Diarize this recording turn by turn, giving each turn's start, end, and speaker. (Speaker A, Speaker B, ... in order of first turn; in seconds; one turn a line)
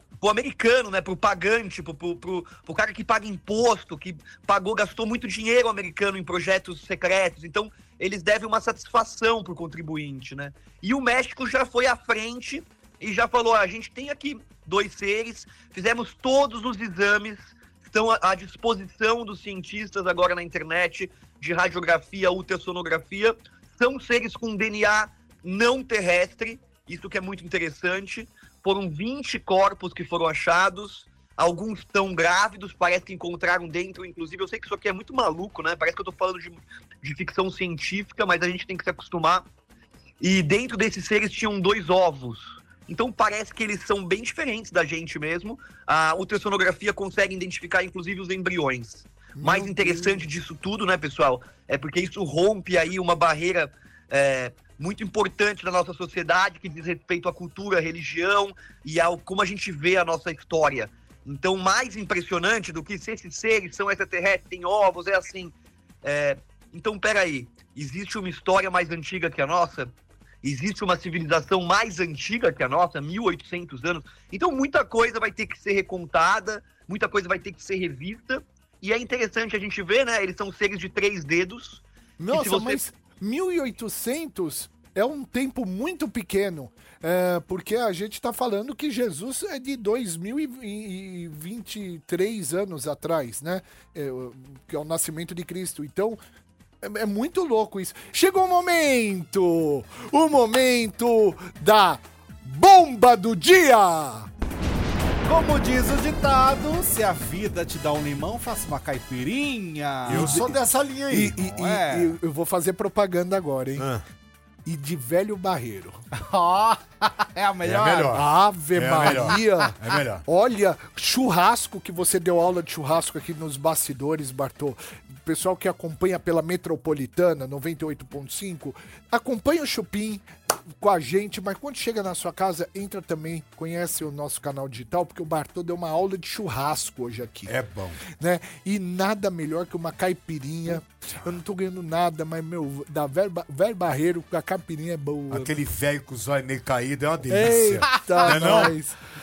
Speaker A: 0.2-39.5
Speaker A: 40.2-65.5
Speaker B: 49.4-50.2
Speaker A: 66.0-69.9
Speaker A: 70.4-82.8
Speaker B: 82.2-96.2
Speaker B: 96.8-104.3
Speaker C: 105.2-110.5
Speaker D: 110.0-111.4
Speaker B: 110.1-110.6
Speaker B: 111.1-113.9
Speaker C: 111.4-112.2
Speaker D: 113.8-114.0
Speaker B: 114.6-116.0
Speaker C: 116.1-118.2
Speaker D: 117.6-120.2
Speaker B: 118.1-137.5
Speaker D: 137.5-138.0
Speaker B: 138.2-145.5
Speaker D: 145.3-148.7
Speaker B: 147.3-148.9
Speaker C: 148.0-148.7